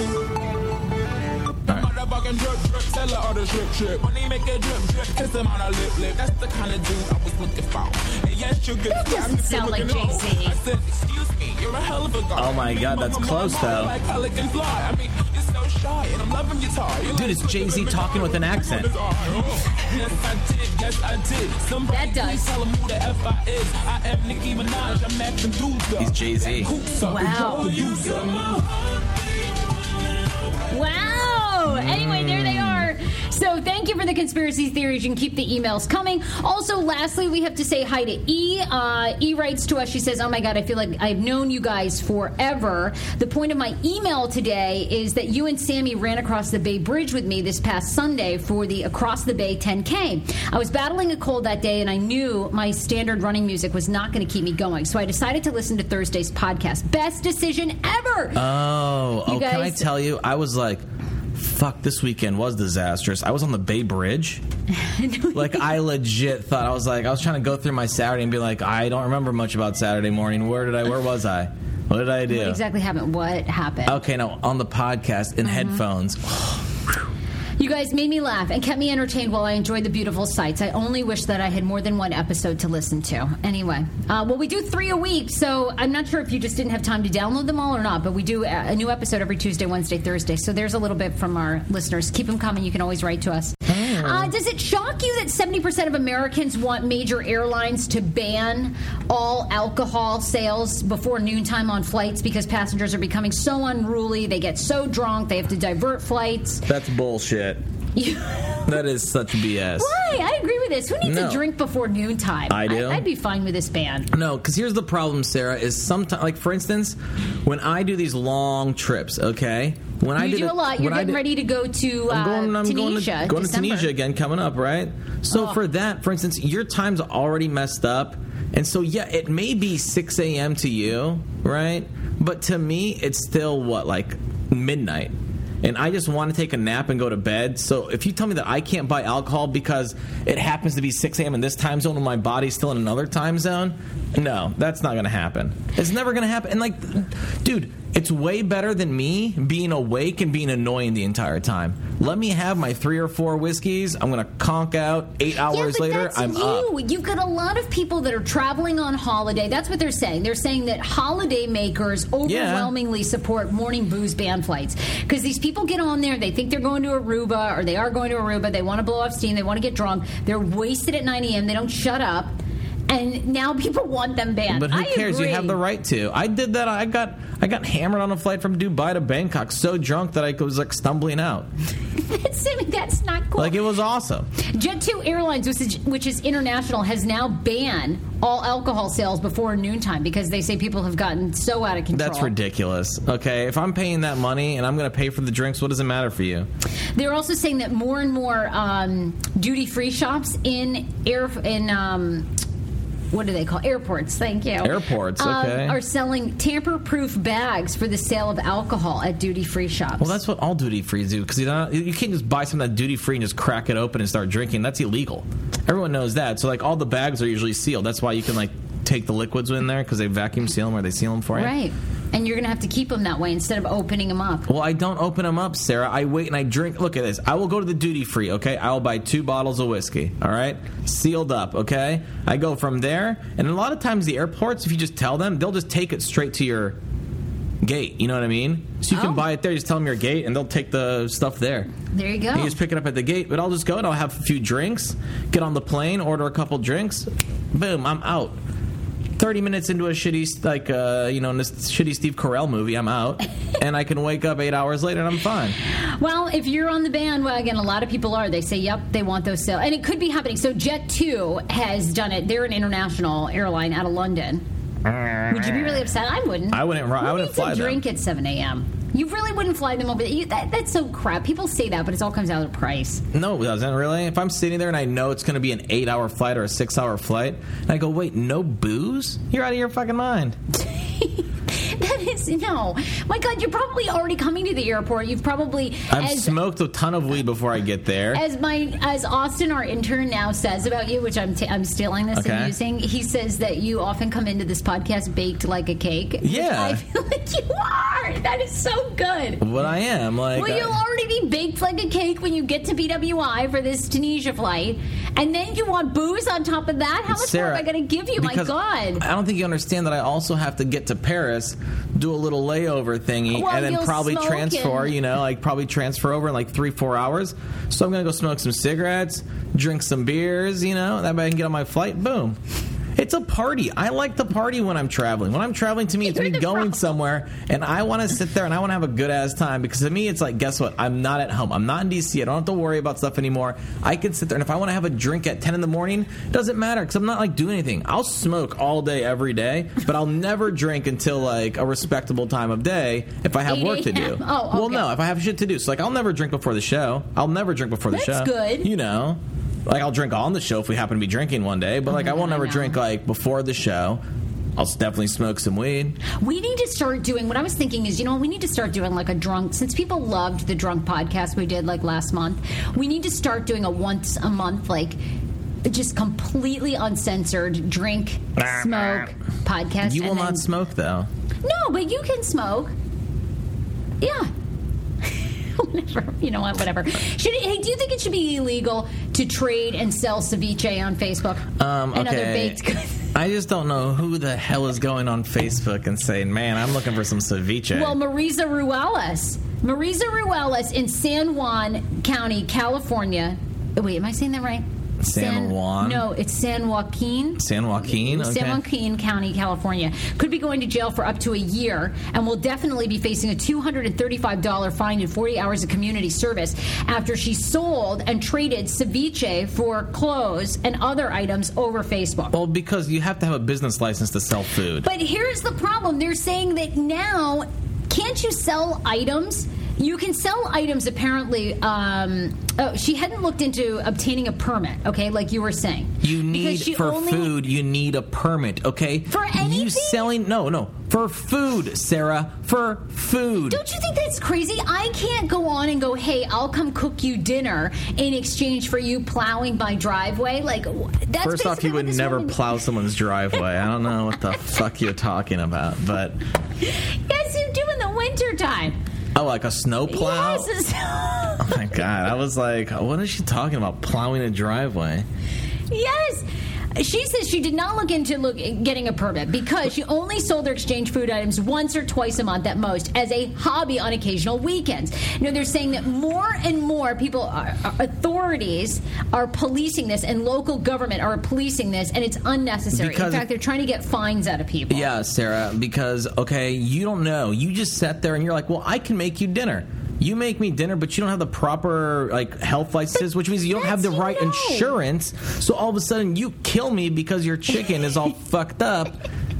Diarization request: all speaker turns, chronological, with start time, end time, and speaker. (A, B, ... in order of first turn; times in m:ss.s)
0:01.7-0:29.7 A
0:08.9-0:10.6 B
0:12.4-0:13.9 C
0:17.1-0:18.9 C
0:21.9-0:22.5 B
0:26.0-0:26.7 C
0:27.0-0:28.0 B
0:30.7-0:58.4 B
0:31.7-0:32.9 C
0:58.3-1:00.8 C
0:59.2-0:59.9 B
1:01.3-1:04.4 C
1:04.7-1:05.8 B
1:05.3-1:12.6 C
1:12.3-1:14.0 B
1:13.8-1:16.7 C
1:15.4-1:15.8 B
1:17.6-1:46.6 B
1:33.7-1:34.3 C
1:46.7-1:47.6 C
1:48.0-1:48.8 B
1:48.7-1:49.9 C
1:49.7-1:54.1 B
1:51.0-1:51.4 C
1:52.5-1:53.0 C
1:54.1-2:01.2 C
2:00.2-2:03.9 B
2:02.1-2:36.7 C
2:05.3-2:05.6 B
2:35.5-2:52.4 B
2:42.2-2:42.7 C
2:52.9-2:55.6 B
2:54.5-3:01.5 C
3:02.0-3:03.6 B
3:03.4-3:04.3 C
3:04.4-3:12.3 B
3:11.9-3:16.5 C
3:17.0-3:22.3 B
3:23.1-3:30.2 B
3:24.6-3:25.8 C
3:30.0-3:41.5 C
3:41.3-3:44.5 B
3:44.5-3:56.8 C
3:57.6-4:01.7 C
3:58.9-3:59.2 B
4:01.9-4:02.5 B
4:02.3-4:08.4 C
4:09.2-4:15.6 C
4:15.8-4:24.4 B
4:24.8-4:25.8 C
4:25.3-4:33.0 B
4:26.5-4:27.8 C
4:33.1-4:40.4 C
4:40.5-4:46.4 B
4:45.9-4:48.2 C
4:48.1-4:59.5 B
4:52.1-4:52.5 C
4:56.2-4:56.8 C
4:59.4-5:00.7 C
5:00.3-5:09.0 B
5:07.1-5:22.4 C
5:13.3-5:15.0 B
5:23.0-5:54.0 C
5:26.1-5:26.8 B
5:43.5-5:44.9 B
5:47.9-5:48.7 B
5:51.9-5:52.8 B
5:54.6-5:56.0 C
5:56.1-6:05.0 B
6:05.6-6:10.4 B
6:08.4-6:09.0 C
6:09.8-6:11.1 C
6:11.4-6:12.7 B
6:14.0-6:14.3 B
6:15.0-6:23.1 B
6:21.6-6:22.6 C
6:23.1-6:28.0 C
6:27.7-6:52.3 B
6:35.0-6:36.0 C
6:37.4-6:38.6 C
6:52.3-6:54.9 C
6:54.8-7:07.3 B
7:06.0-7:13.6 C
7:09.1-7:10.1 B
7:13.5-7:22.4 B
7:21.2-7:26.2 C
7:26.6-7:28.8 B
7:29.1-7:30.5 C
7:29.9-7:31.6 B
7:31.4-7:35.0 C
7:35.7-7:54.9 B
7:52.7-7:53.2 C
7:54.7-8:08.9 C
8:03.5-8:04.7 B